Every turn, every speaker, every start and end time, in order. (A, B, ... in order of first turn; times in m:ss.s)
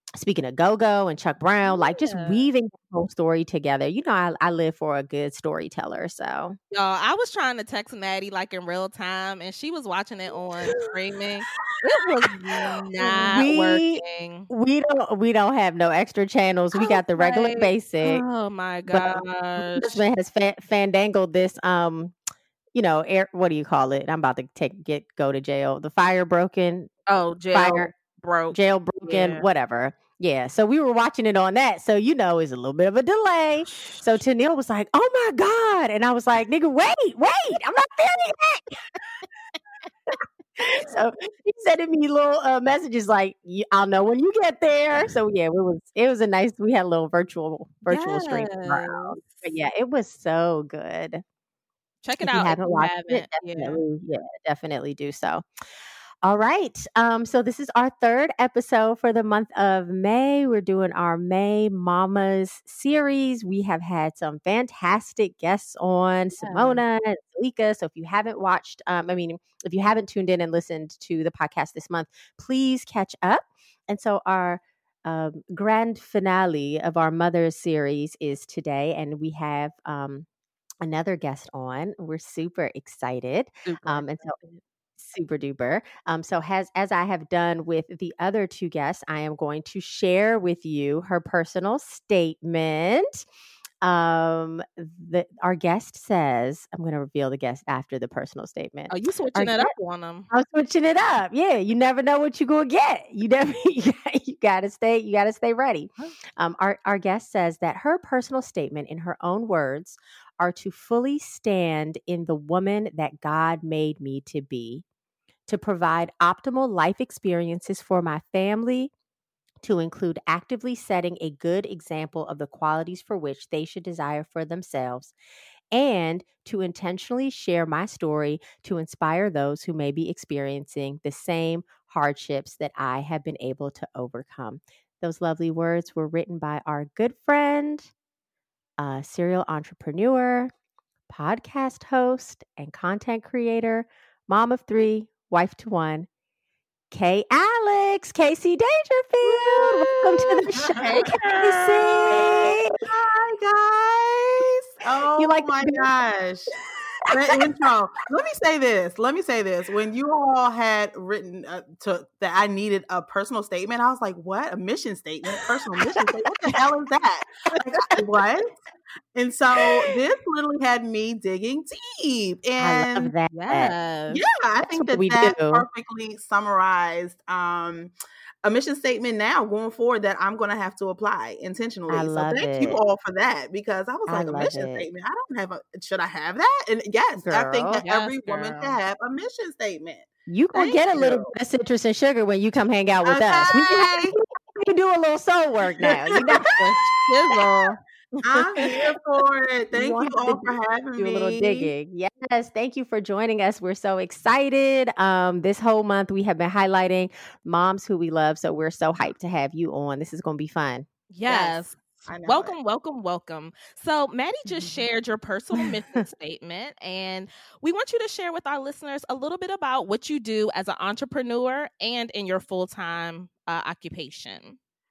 0:00.2-0:06.6 A
0:01.6-0:02.5 B
0:06.7-0:14.5 B
0:12.0-0:12.8 C
0:13.0-0:18.2 A
0:16.8-0:20.0 B
0:18.9-0:22.2 A
0:22.7-0:26.9 A
0:27.1-0:29.5 B
0:27.5-0:27.9 A
0:28.5-0:38.8 A
0:40.6-0:51.2 A
0:47.9-0:49.5 B
0:52.0-0:53.8 B
0:52.2-0:55.4 A
0:56.2-1:20.3 A
1:06.4-1:06.8 B
1:20.8-1:24.4 A
1:23.6-1:24.6 B
1:25.0-1:33.3 A
1:33.8-1:39.7 A
1:38.9-1:40.3 B
1:40.3-1:54.8 A
1:55.5-1:58.9 A
1:59.6-2:05.2 A
2:05.7-2:17.9 A
2:18.8-2:20.5 A
2:21.1-2:26.1 A
2:26.9-2:32.8 A
2:29.3-2:32.2 B
2:30.8-2:31.0 C
2:32.1-2:36.5 C
2:35.2-2:35.9 A
2:37.1-2:48.5 C
2:49.2-2:53.1 C
2:52.6-2:53.7 A
2:53.4-2:54.2 B
2:54.1-2:57.9 C
2:54.7-2:55.7 A
2:58.4-3:11.3 C
3:01.9-3:02.8 A
3:04.1-3:04.9 A
3:07.2-3:07.8 A
3:07.8-3:08.8 B
3:10.3-3:16.5 A
3:13.0-3:14.2 C
3:15.8-3:16.5 C
3:16.5-3:17.8 B
3:18.2-3:21.7 C
3:19.7-3:31.6 A
3:31.1-3:44.6 B
3:32.1-3:32.6 C